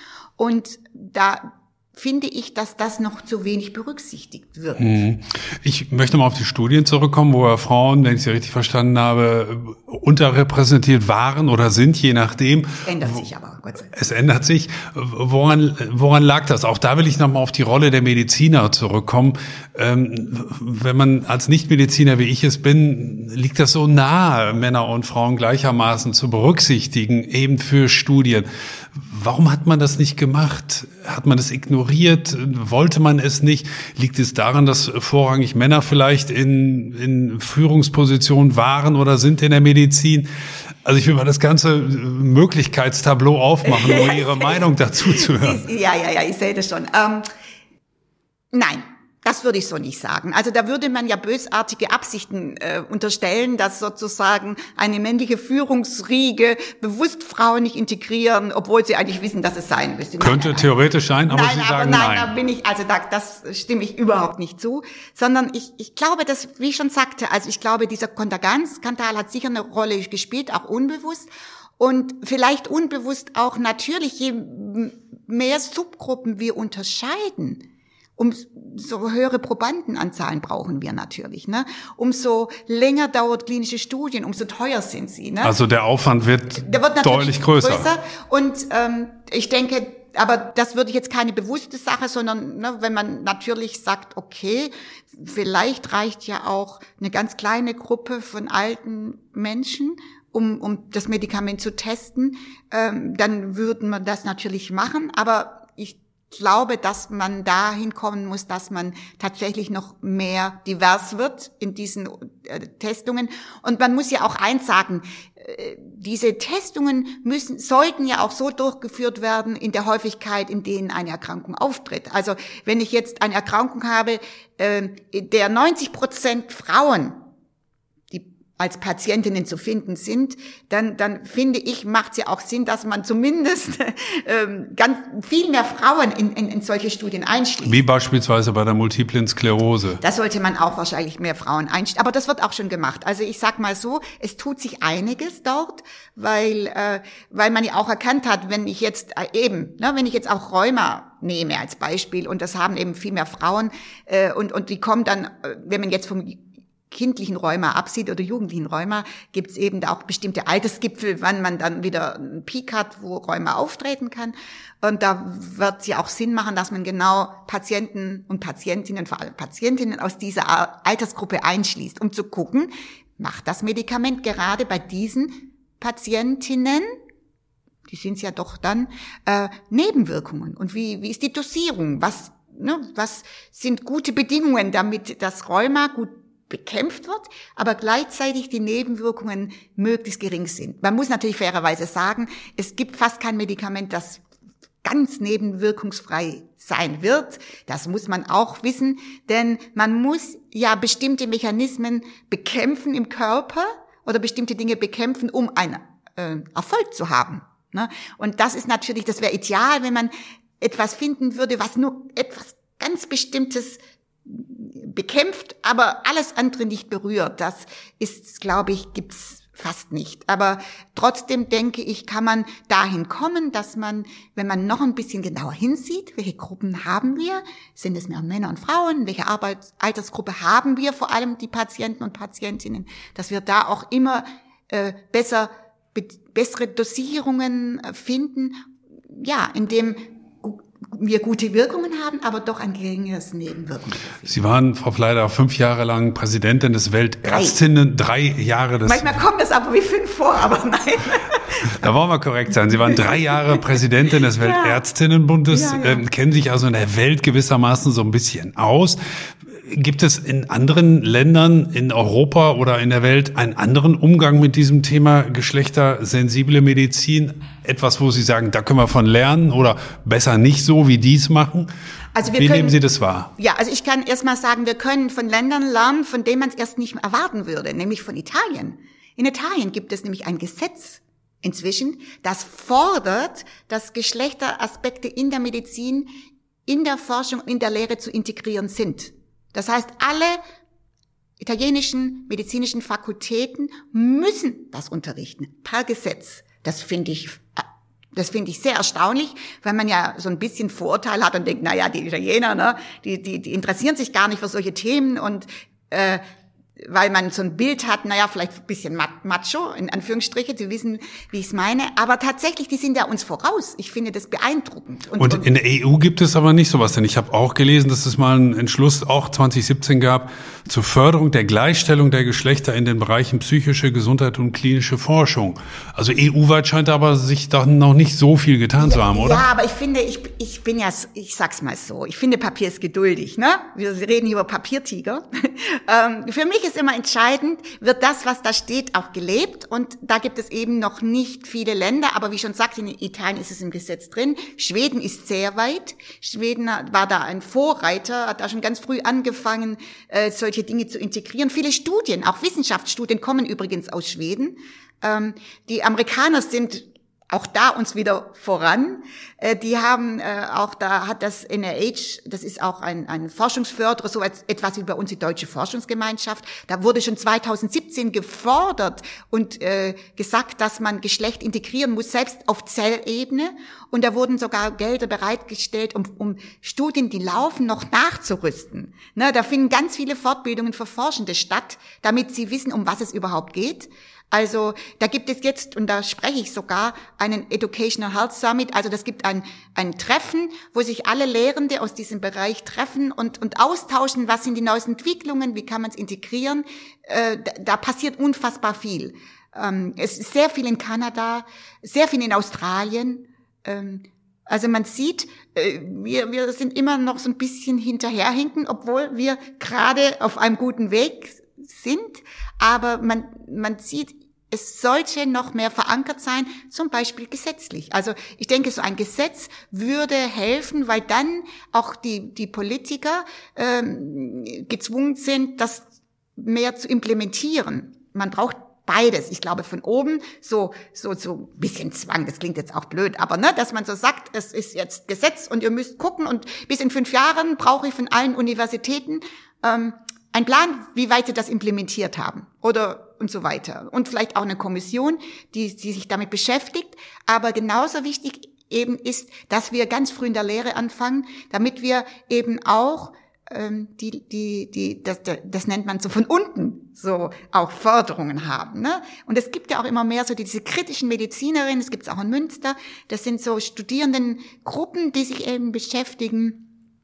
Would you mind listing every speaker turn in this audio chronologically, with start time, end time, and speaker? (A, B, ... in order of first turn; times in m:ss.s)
0:00.4-0:05.0 A
0:04.8-0:13.2 B
0:12.8-0:13.9 A
0:13.9-0:40.3 B
0:40.8-0:45.6 B
0:43.6-0:47.3 A
0:48.5-1:00.7 A
1:00.2-1:02.3 B
1:01.3-1:11.3 A
1:11.8-1:17.6 A
1:18.2-1:25.6 A
1:25.4-1:27.9 B
1:26.6-2:07.2 A
2:08.1-2:17.8 A
2:17.6-2:20.0 B
2:20.0-2:56.9 A
2:57.9-3:14.2 A
3:14.8-4:04.4 A
4:04.3-4:09.1 B
4:07.2-4:07.6 A
4:08.8-4:11.9 A
4:11.7-4:31.7 B
4:12.7-4:13.6 A
4:14.4-4:14.8 A
4:15.5-4:16.0 A
4:32.2-4:32.8 A
4:32.2-4:33.3 B
4:33.4-4:46.1 A
4:46.7-4:50.4 A
4:51.4-5:06.2 A
5:06.8-5:15.5 A
5:15.2-5:29.4 B
5:28.8-7:46.7 A